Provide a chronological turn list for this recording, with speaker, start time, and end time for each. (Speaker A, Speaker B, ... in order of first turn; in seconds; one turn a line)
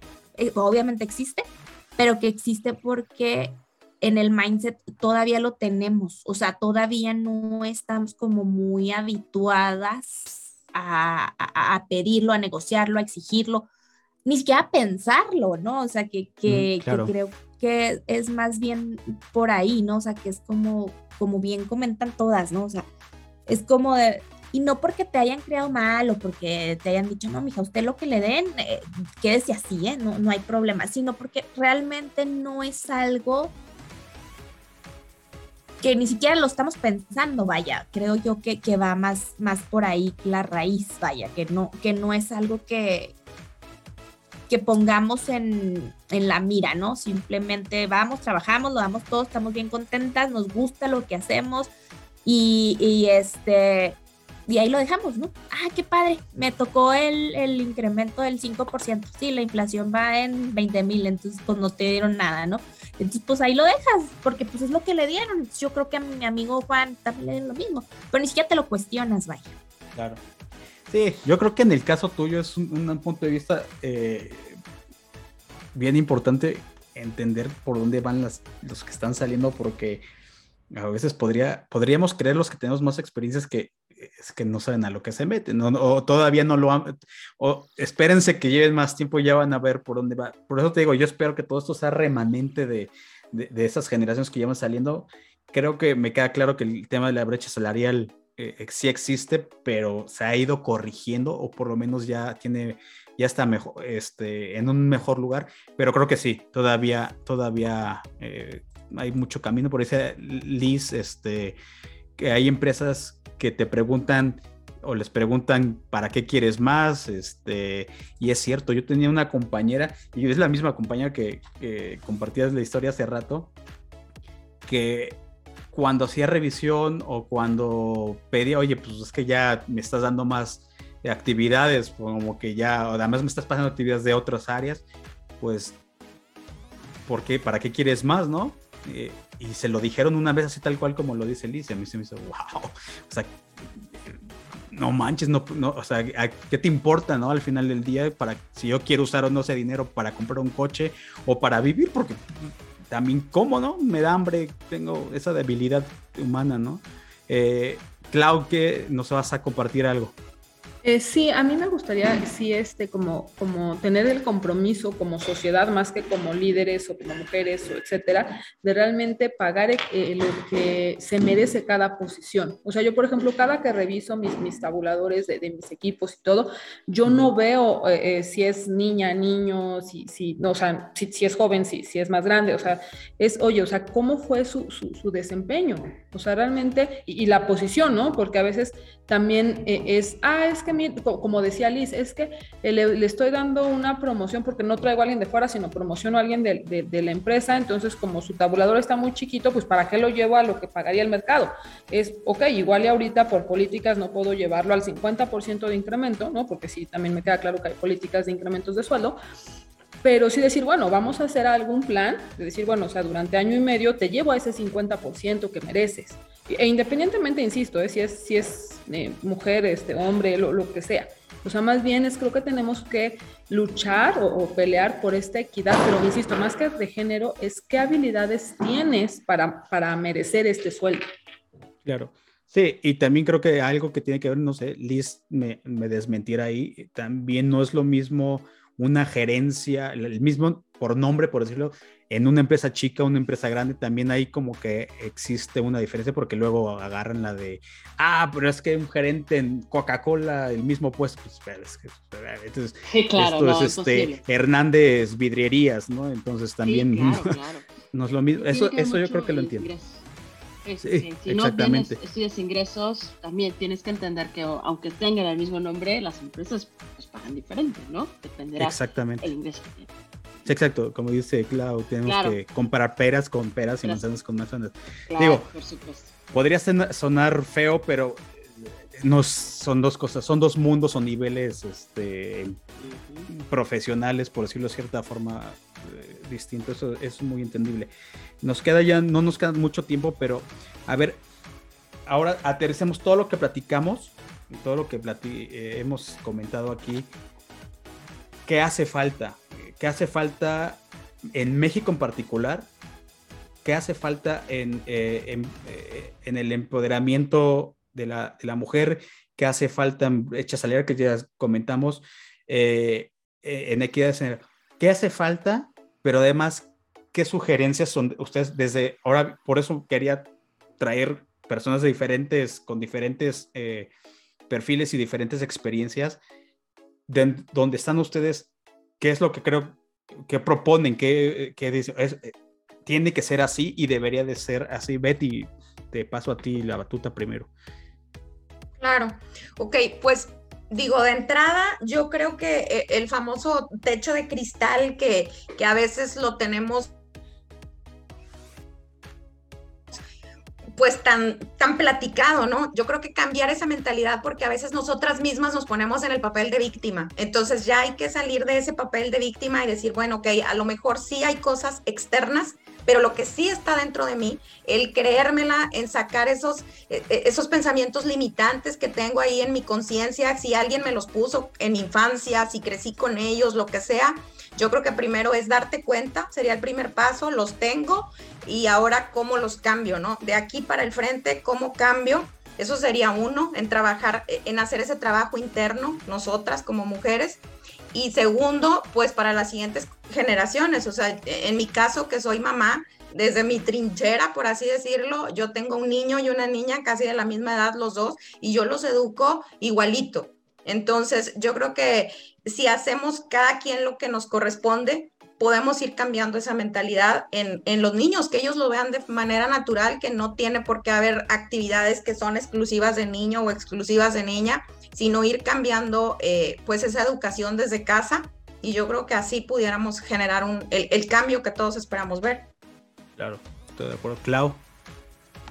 Speaker A: 0.4-1.4
Speaker A: 2.0-13.7
Speaker A: 14.2-22.9
Speaker B: 16.4-17.1
Speaker A: 23.5-33.5
Speaker A: 35.8-43.1
Speaker A: 44.5-51.7
Speaker A: 52.2-69.5
Speaker B: 69.9-70.2
Speaker B: 70.9-74.6
Speaker B: 75.7-80.0
Speaker B: 80.7-111.6
Speaker B: 112.2-123.5
Speaker B: 124.6-125.2
Speaker B: 125.7-134.8
Speaker B: 135.4-135.8
Speaker B: 137.1-143.4
Speaker B: 144.7-160.1
Speaker C: 160.8-209.2
Speaker C: 210.0-231.0
Speaker B: 231.8-257.4
Speaker D: 252.8-254.2
Speaker D: 256.6-257.6
Speaker B: 257.9-259.7
Speaker D: 258.3-260.0
Speaker D: 260.6-269.9
Speaker B: 260.8-262.0
Speaker B: 268.6-269.3
Speaker B: 270.4-275.5
Speaker D: 272.0-272.4
Speaker D: 275.1-276.1
Speaker B: 276.3-282.6
Speaker D: 282.8-283.3
Speaker B: 283.3-287.9
Speaker B: 288.4-291.2
Speaker B: 292.1-297.1
Speaker B: 298.4-300.8
Speaker B: 301.3-302.7
Speaker B: 303.6-320.3
Speaker B: 320.8-323.9
Speaker B: 324.5-326.2
Speaker B: 327.1-328.5
Speaker B: 329.0-332.3
Speaker B: 332.9-337.5
Speaker E: 338.8-346.9
Speaker E: 350.7-387.4
Speaker E: 387.9-422.5
Speaker B: 423.2-424.6